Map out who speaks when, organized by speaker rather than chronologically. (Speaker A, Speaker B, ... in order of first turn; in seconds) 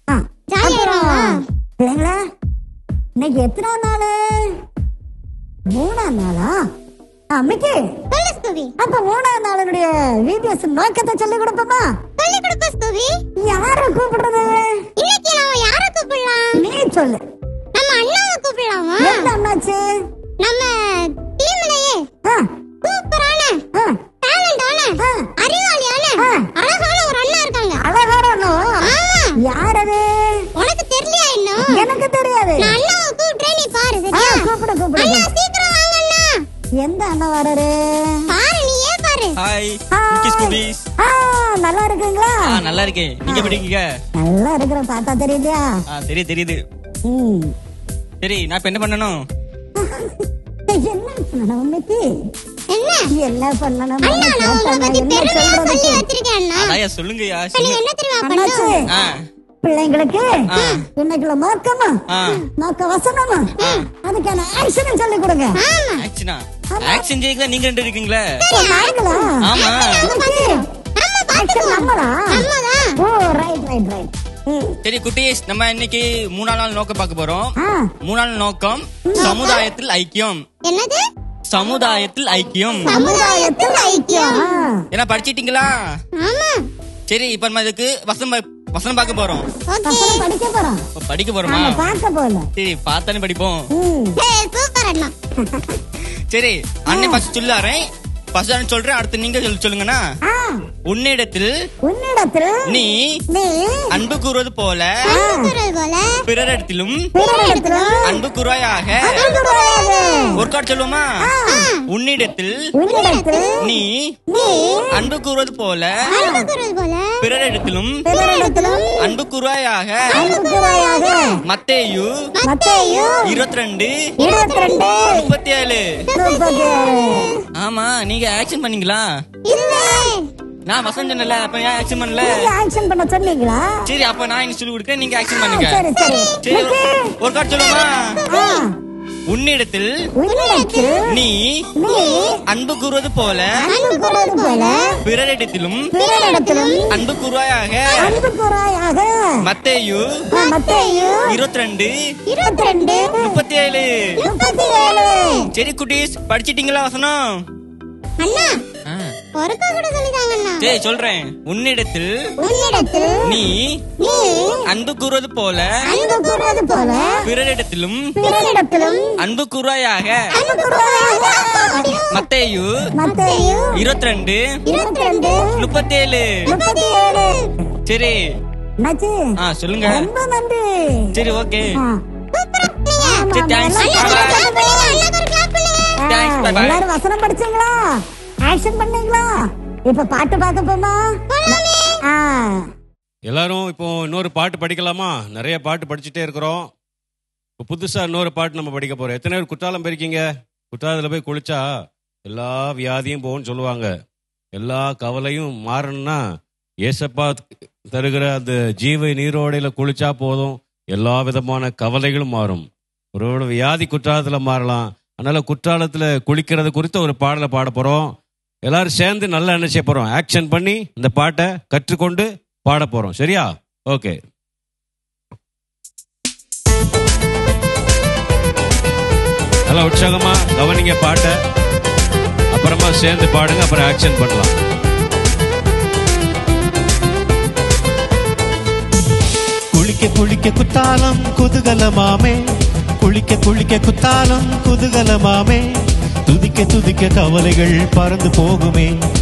Speaker A: 0.1-2.2, 3.2-4.5, 5.7-6.5, 7.3-7.8, 8.8-11.9, 13.4-14.8, 16.6-17.2, 19.0-19.8, 25.0-25.3, 26.2-26.5, 27.8-30.4, 31.7-32.8, 34.1-35.3, 36.8-38.1, 39.9-42.5, 43.3-43.6, 44.2-45.6, 47.1-47.5, 49.8-50.1, 50.7-52.0, 53.1-56.0, 58.2-58.9, 59.6-60.4, 61.0-62.0, 62.5-65.5, 66.8-67.0, 68.5-70.6, 71.3-72.5, 73.0-74.7, 79.1-79.6, 82.9-84.8, 89.9-90.8, 91.5-92.5, 93.7-94.1, 96.9-97.2, 100.3-100.5, 101.9-102.7, 103.3-104.0, 105.1-105.4, 107.1-108.2, 109.1-110.4, 111.3-111.6, 112.8-113.6, 114.3-114.9, 116.1-116.5, 118.1-119.0, 120.1-121.3, 122.4-123.2, 124.2-125.2, 126.1-127.4, 129.5-130.0, 132.2-133.6, 135.3-137.1, 138.3-138.7, 140.2-141.1, 141.8-142.4, 143.6-144.8, 145.9-147.1, 148.0-149.1, 150.3-151.3, 152.4-153.3, 154.2-155.4, 162.4-163.3, 165.9-167.2, 168.2-169.1, 170.4-172.0, 173.0-173.6, 174.7-175.7, 176.5-177.5, 178.8-179.1, 179.9-181.0, 183.0-185.0, 186.0-187.8, 188.5-189.3, 189.9-191.0, 191.5-192.6
Speaker B: 0.5-1.4, 8.1-8.7, 12.2-13.2, 15.0-16.6, 17.8-19.3, 20.4-22.1, 22.8-23.6, 24.2-27.8, 28.8-29.4, 30.6-31.9, 32.6-36.4, 38.3-39.3, 52.7-53.1, 54.0-56.8, 57.5-58.9, 65.6-66.0, 68.5-73.0, 79.2-79.6, 80.7-81.0, 81.6-81.9, 82.9-84.6, 86.2-86.7, 89.7-90.3, 94.2-95.1, 105.1-106.2, 107.2-108.1, 109.2-109.9, 111.5-111.8, 112.8-113.6, 114.4-114.8, 116.1-117.0, 118.2-118.8, 122.4-123.3, 124.2-124.8, 126.1-126.6, 129.5-130.3, 138.2-138.7, 140.3-141.1, 141.9-142.4, 143.7-144.9, 146.0-147.0, 150.3-151.3, 152.3-153.1, 158.2-158.6, 159.4-160.7, 162.4-163.1, 164.0-164.6, 165.9-167.0, 168.2-169.0, 170.3-172.2, 173.0-173.8, 174.7-175.5, 176.5-177.2, 182.3-186.0, 191.3-192.0
Speaker C: 39.4-40.8, 42.5-43.9, 45.9-46.6, 48.2-49.2, 56.6-57.8, 58.9-59.2, 60.5-60.8, 62.1-62.4, 66.0-68.2, 69.5-70.0, 74.8-77.5, 78.0-80.4, 81.5-82.9, 84.9-85.8, 87.1-89.5, 91.0-91.8, 92.6-93.7, 96.3-100.0, 100.9-101.5, 102.7-103.0, 103.9-105.0, 106.3-107.0, 108.1-109.3, 110.4-111.1, 111.9-112.5, 113.6-113.9, 114.9-115.9, 117.2-118.0, 119.0-120.3, 121.5-122.1, 123.3-123.9, 125.1-125.9, 127.6-129.0, 130.7-132.4, 133.9-135.8, 136.4-138.0, 139.3-139.9, 141.1-141.6, 142.5-143.6, 145.1-145.9, 146.9-148.2, 149.4-150.1, 151.3-151.9, 153.2-153.9, 155.6-157.3, 160.6-162.1, 163.3-163.7, 164.7-165.8, 167.3-168.1, 169.2-170.3, 172.1-172.7, 173.8-174.4, 175.6-176.3, 177.9-178.2, 179.4-180.1, 181.2-181.7, 183.3-184.5, 186.1-186.8
Speaker D: 193.3-196.7, 197.6-201.7, 202.3-203.9, 204.6-206.2, 206.8-218.1, 218.7-224.2, 229.7-231.3, 232.5-234.6
Speaker E: 239.7-242.4, 243.0-245.6, 246.3-248.9